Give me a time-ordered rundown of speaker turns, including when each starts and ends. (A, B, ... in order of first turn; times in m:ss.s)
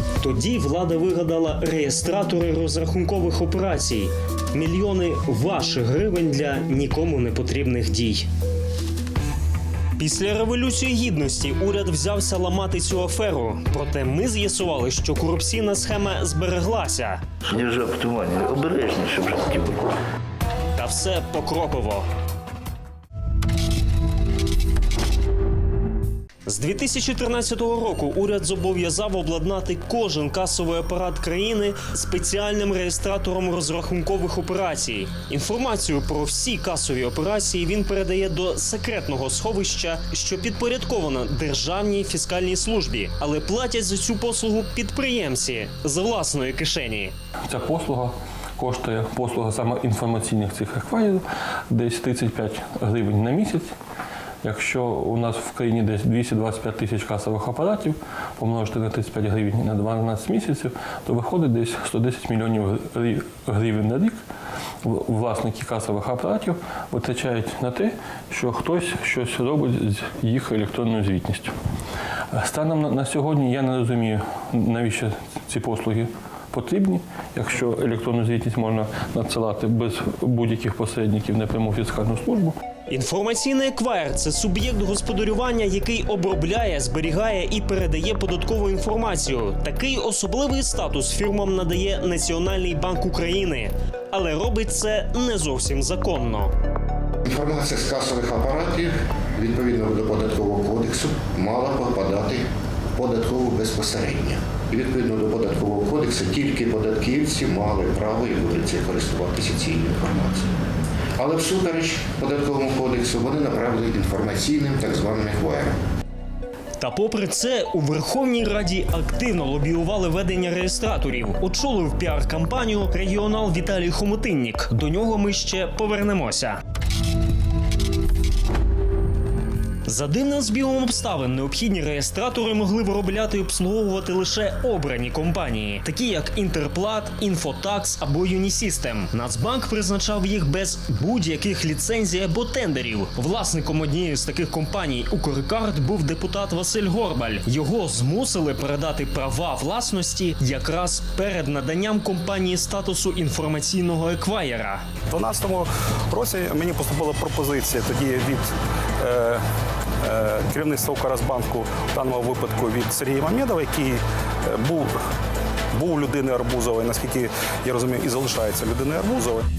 0:00.2-0:08.3 A
0:10.0-0:17.2 A
0:17.4-0:19.9 B
0:20.8-0:22.1 A
0:26.5-0:47.1 A
0:47.5-0:53.7 C
0:54.4-1:04.2 C
1:04.8-1:11.5 C
1:12.3-1:22.6 C
1:22.9-1:36.5 A
1:37.2-1:50.5 D
1:51.2-1:55.7 D
1:56.8-2:06.6 A
2:09.8-2:34.8 A
2:35.1-2:38.4 E
2:39.0-2:39.4 E
2:40.0-2:44.0 E
2:44.5-2:44.9 E
2:45.7-2:49.4 E